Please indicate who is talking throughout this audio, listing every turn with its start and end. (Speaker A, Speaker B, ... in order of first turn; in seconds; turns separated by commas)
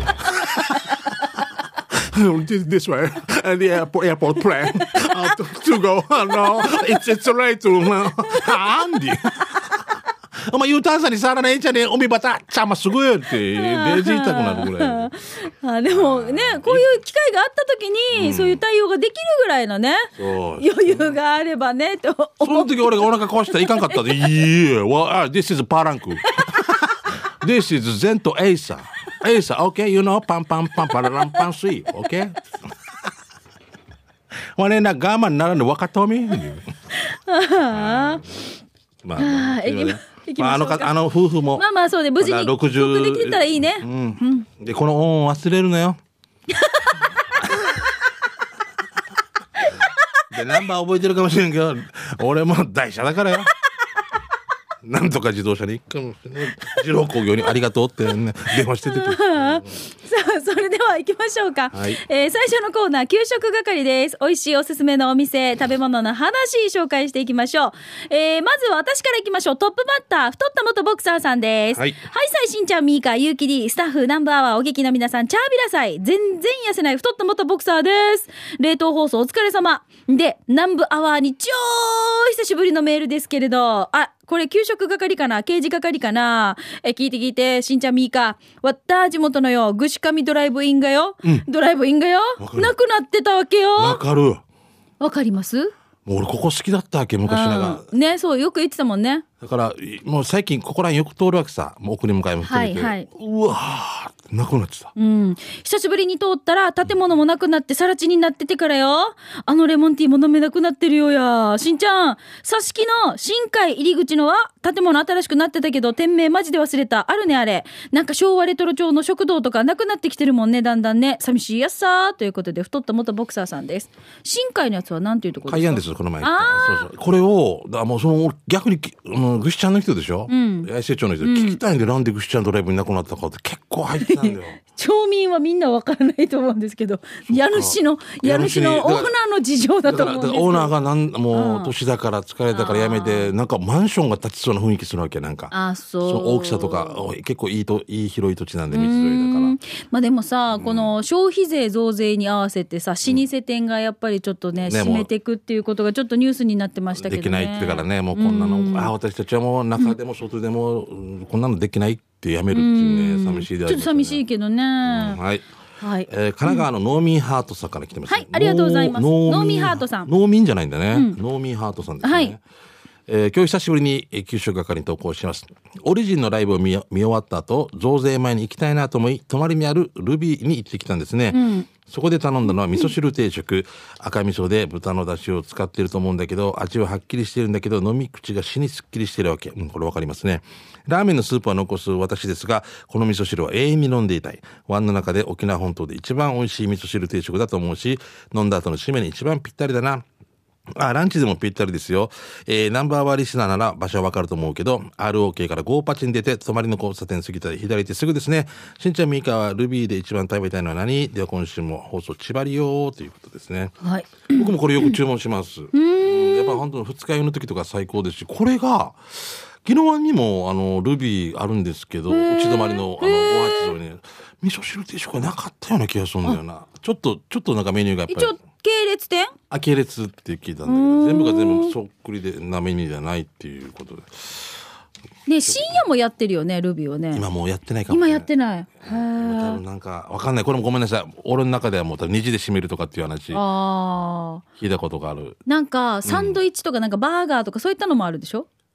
Speaker A: 0.2-0.9, Speaker A: 1.9-15.1, Speaker B: 8.3-9.0, Speaker B: 13.5-24.1, Speaker A: 15.9-16.9, Speaker A: 18.1-18.6, Speaker A: 20.2-21.2, Speaker A: 22.4-32.4, Speaker A: 34.6-36.7, Speaker B: 36.9-38.4, Speaker A: 37.7-38.3, Speaker A: 39.0-41.7, Speaker B: 39.2-41.0, Speaker B: 41.5-44.5, Speaker A: 42.2-46.0, Speaker B: 46.5-47.3, Speaker A: 47.4-47.8, Speaker B: 49.6-50.2, Speaker A: 50.3-53.5, Speaker A: 54.8-59.7, Speaker B: 58.8-94.0, Speaker A: 61.7-62.0, Speaker A: 92.4-92.7, Speaker A: 93.8-94.4, Speaker B: 95.0-95.7, Speaker A: 96.1-97.8, Speaker B: 97.2-99.3, Speaker A: 99.4-104.9, Speaker B: 102.4-103.1, Speaker B: 105.0-126.9, Speaker A: 125.5-134.6, Speaker B: 130.3-130.7, Speaker B: 131.2-131.6, Speaker B: 134.0-140.7, Speaker A: 137.3-139.1, Speaker A: 139.9-145.5, Speaker B: 141.3-141.7, Speaker B: 142.5-143.3, Speaker B: 145.5-147.0, Speaker A: 146.0-149.6, Speaker B: 148.7-158.9, Speaker A: 150.5-150.9, Speaker A: 154.7-155.1, Speaker A: 157.0-164.2, Speaker B: 162.5-165.2, Speaker A: 164.9-165.5, Speaker B: 165.8-166.7, Speaker A: 166.1-172.4, Speaker B: 168.1-170.1, Speaker B: 170.9-171.2, Speaker B: 172.0-172.4, Speaker A: 173.1-200.1, Speaker B: 181.3-181.7, Speaker A: 200.7-213.8, Speaker B: 213.8-214.9, Speaker A: 214.3-228.3, Speaker B: 215.7-216.6, Speaker B: 222.1-223.7, Speaker B: 228.1-229.4, Speaker A: 229.5-234.6, Speaker B: 230.7-231.8, Speaker B: 235.3-237.2, Speaker A: 235.4-235.8, Speaker A: 237.1-238.3, Speaker B: 237.9-239.6, Speaker A: 238.8-243.4, Speaker B: 243.3-244.4, Speaker A: 244.6-245.4, Speaker B: 245.5-248.5, Speaker A: 246.1-246.4